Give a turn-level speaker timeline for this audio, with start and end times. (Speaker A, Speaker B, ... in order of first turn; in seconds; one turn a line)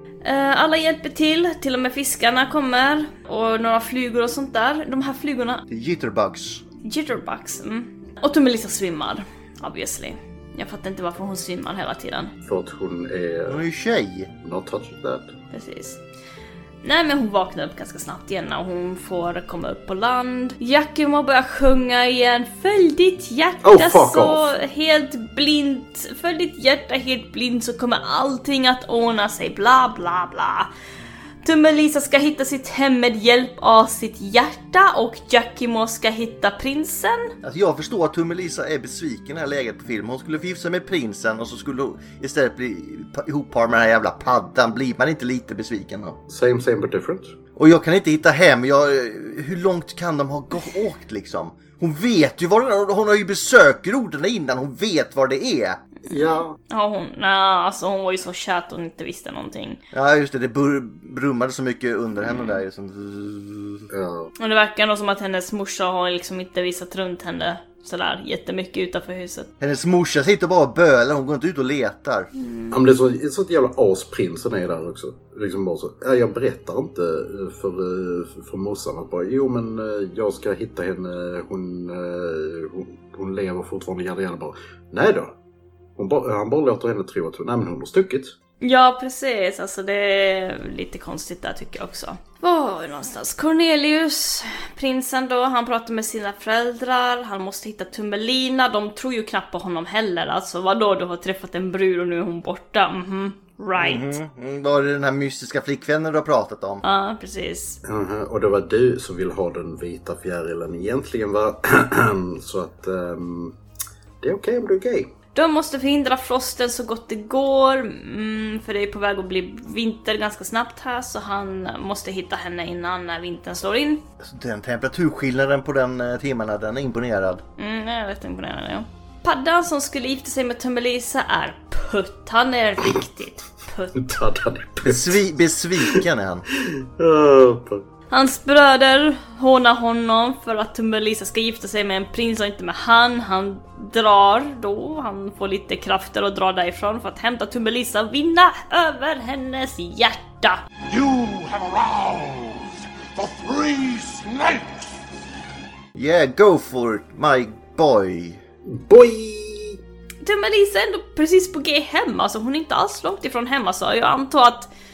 Speaker A: 0.2-5.6
Speaker B: 5.7-6.6
Speaker A: 6.8-12.3
Speaker C: 12.4-13.6
Speaker B: 13.5-14.3
Speaker C: 14.4-15.3
Speaker A: 15.5-16.0
Speaker A: 16.8-30.7
Speaker C: 23.6-24.5
Speaker A: 31.4-37.3
Speaker B: 37.4-46.2
Speaker C: 46.3-47.3
Speaker B: 47.5-55.8
Speaker C: 56.1-56.6
Speaker A: 56.1-59.8
Speaker B: 59.9-63.9
Speaker C: 63.9-64.3
Speaker A: 64.4-69.5
Speaker B: 69.6-72.3
Speaker A: 72.4-72.7
Speaker C: 72.7-85.3
Speaker C: 86.0-88.3
Speaker A: 88.6-104.1
Speaker B: 103.8-106.8
Speaker A: 106.8-107.8
Speaker C: 107.8-113.5
Speaker C: 114.2-115.1
Speaker A: 115.3-124.0
Speaker B: 124.2-127.4
Speaker A: 127.6-134.2
Speaker C: 134.0-135.2
Speaker B: 134.8-136.4
Speaker C: 136.6-137.8
Speaker A: 138.1-150.6
Speaker D: 150.9-154.9
Speaker B: 155.9-158.4
Speaker C: 158.6-159.8
Speaker A: 160.2-164.7